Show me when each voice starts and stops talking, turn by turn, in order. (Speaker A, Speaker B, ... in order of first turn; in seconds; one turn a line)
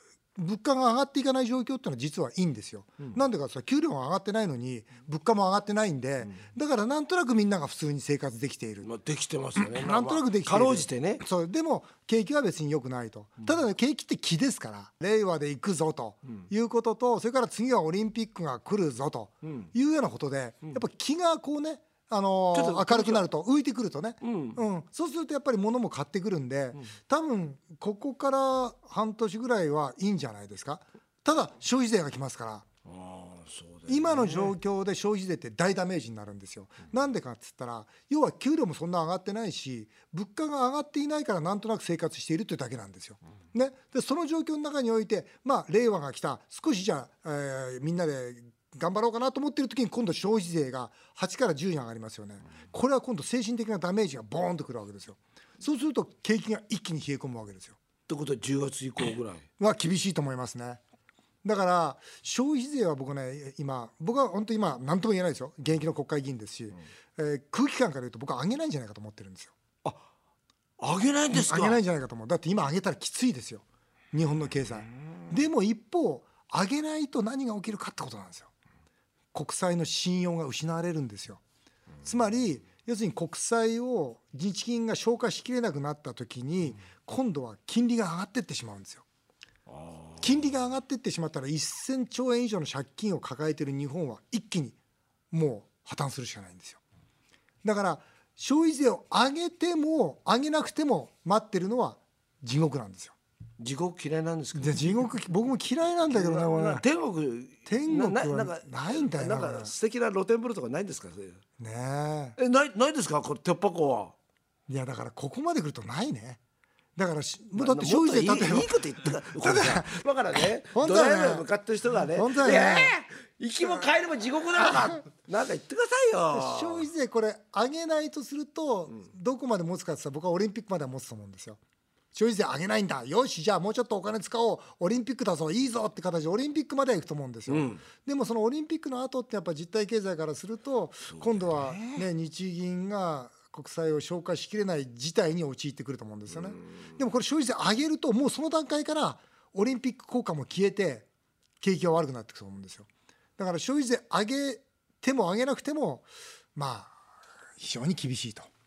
Speaker A: 0.3-8.9
Speaker B: 8.8-11.2
Speaker A: 9.6-32.7
Speaker B: 19.4-19.7
Speaker B: 22.5-23.2
Speaker B: 24.2-24.6
Speaker B: 32.8-34.6
Speaker A: 33.9-57.8
Speaker B: 58.1-59.5
Speaker A: 59.6-60.8
Speaker A: 61.4-69.5
Speaker B: 70.8-71.8
Speaker A: 71.3-78.5
Speaker A: 79.3-81.4
Speaker A: 82.0-89.0
Speaker B: 89.7-90.2
Speaker A: 90.2-94.8
Speaker A: 95.3-96.8
Speaker A: 97.6-103.2
Speaker B: 103.6-104.9
Speaker A: 104.6-106.8
Speaker B: 106.1-111.4
Speaker A: 107.7-109.7
Speaker A: 111.6-112.4
Speaker B: 112.4-114.2
Speaker A: 114.7-116.4
Speaker A: 117.0-120.0
Speaker B: 117.6-126.9
Speaker A: 120.7-122.9
Speaker A: 126.3-131.6
Speaker A: 132.1-151.1
Speaker B: 137.5-137.8
Speaker B: 141.1-142.0
Speaker B: 146.3-147.0
Speaker A: 151.6-152.9
Speaker A: 153.4-157.0
Speaker A: 157.6-158.5